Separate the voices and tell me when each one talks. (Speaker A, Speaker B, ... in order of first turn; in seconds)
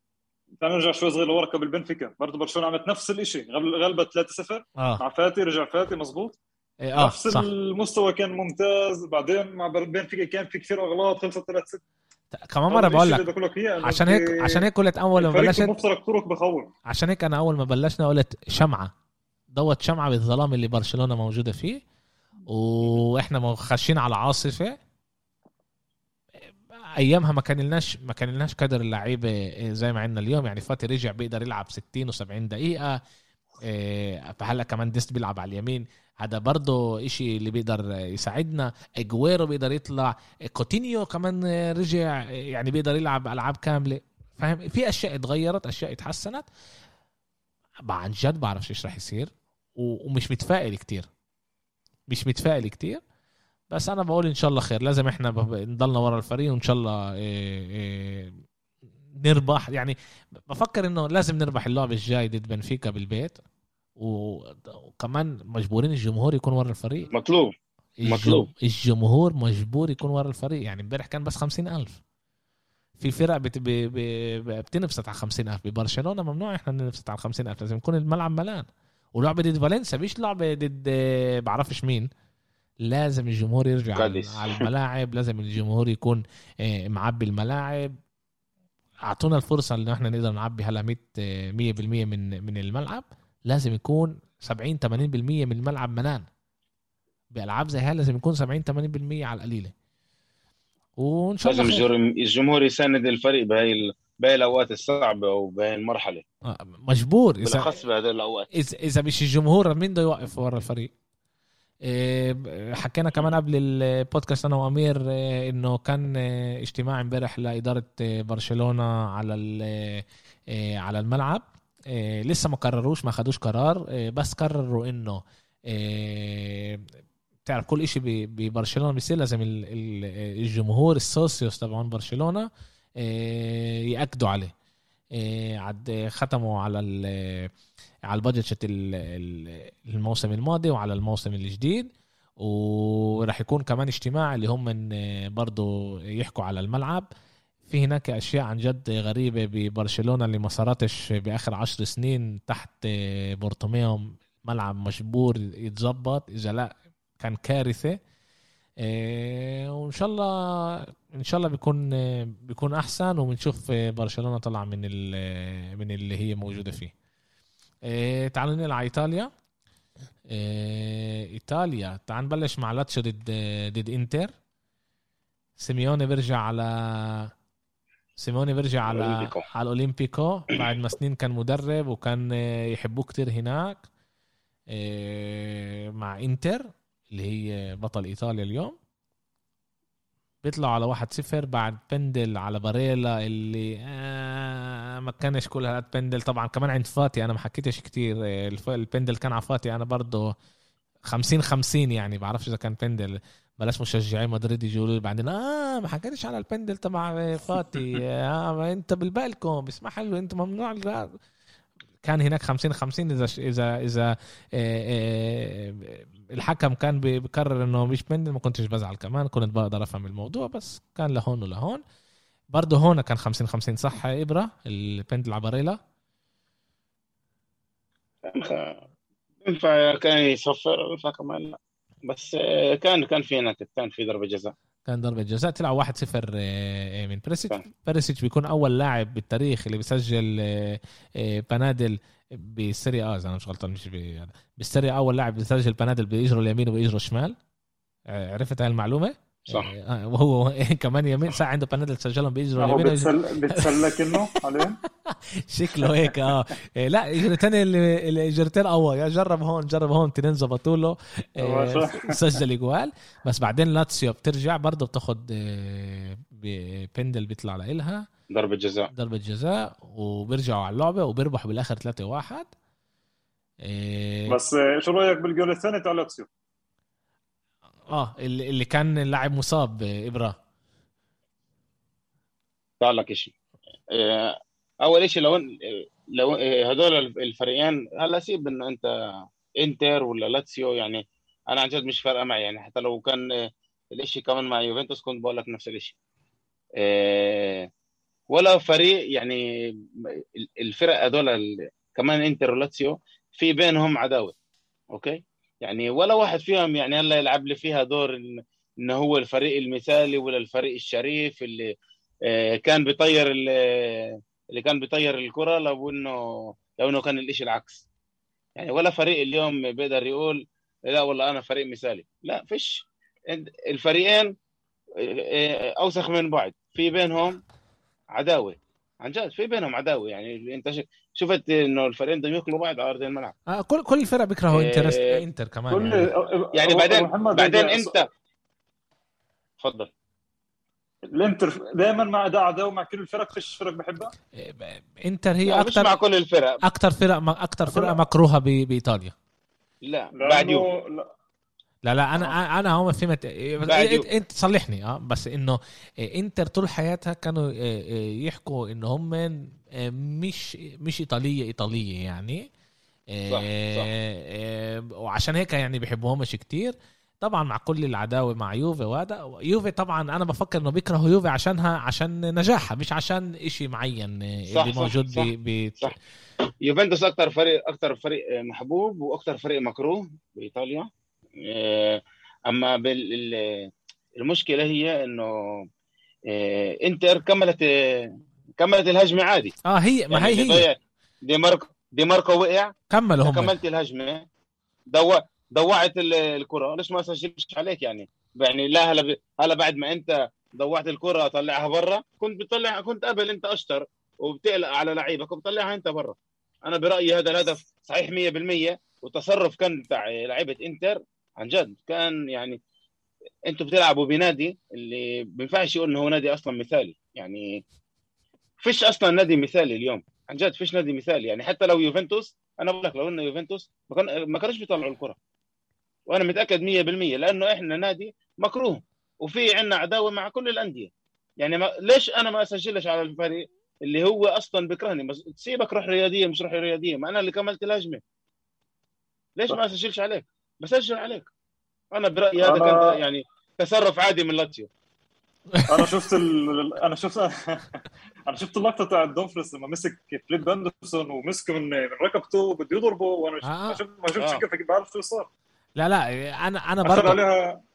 Speaker A: 0.6-6.4, 7.0-11.8, 12.7-16.7, 252.6-254.8, 261.4-262.4, 274.3-276.3, 335.7-338.0, 341.1-344.1, 347.7-348.0, 350.2-351.1, 442.4-442.9, 445.7-447.6, 448.3-455.3, 456.8-457.6
Speaker B: 4.8-5.0, 6.8-7.5, 12.3-13.3, 13.8-15.7, 16.9-18.9, 19.5-21.8, 22.5-24.8, 27.0-33.0, 33.6-46.5, 47.9-51.1, 52.1-53.0, 53.7-58.3, 59.2-63.4, 64.0-67.1, 68.0-72.0, 73.0-82.1, 82.8-88.0, 89.0-96.3, 97.3-99.7, 101.0-101.9, 106.5-107.7, 108.5-110.9, 111.8-126.9, 127.5-134.5, 135.1-137.5, 138.1-147.1, 147.7-158.0, 158.8-166.9, 167.8-169.3, 170.3-174.3, 175.6-177.3, 178.2-183.8, 184.7-188.8, 190.4-200.3, 201.1-211.1, 212.0-221.8, 222.5-225.8, 234.9-247.4, 248.1-268.1, 268.9-272.5, 273.6-274.4, 277.9-280.4, 333.5-336.1, 344.3-346.0, 346.6-349.1, 351.8-362.4, 363.1-376.0, 389.6-390.6, 392.9-393.5, 445.5-445.9, 453.4-453.8, 455.8-457.2
Speaker C: 67.1-67.5, 68.0-68.5, 84.0-84.7, 101.5-106.2, 107.4-108.5, 178.9-179.4, 228.3-228.8, 229.4-234.5, 268.3-268.9, 282.8-283.3, 283.9-288.9, 289.6-295.9, 296.8-297.7, 298.3-299.4, 300.4-304.3, 304.9-311.7, 312.3-317.9, 318.6-324.3, 325.0-327.4, 328.1-333.3, 334.5-335.2, 336.5-338.1, 339.6-339.9, 345.5-346.6, 349.8-350.7, 353.6-354.1, 363.3-363.9, 374.5-375.9, 376.6-380.9, 381.4-385.6, 386.3-389.5, 390.1-392.7, 393.2-394.2, 394.9-412.6, 413.5-417.6, 418.6-425.2, 426.1-438.0, 439.4-441.3, 441.9-444.7, 454.2-454.4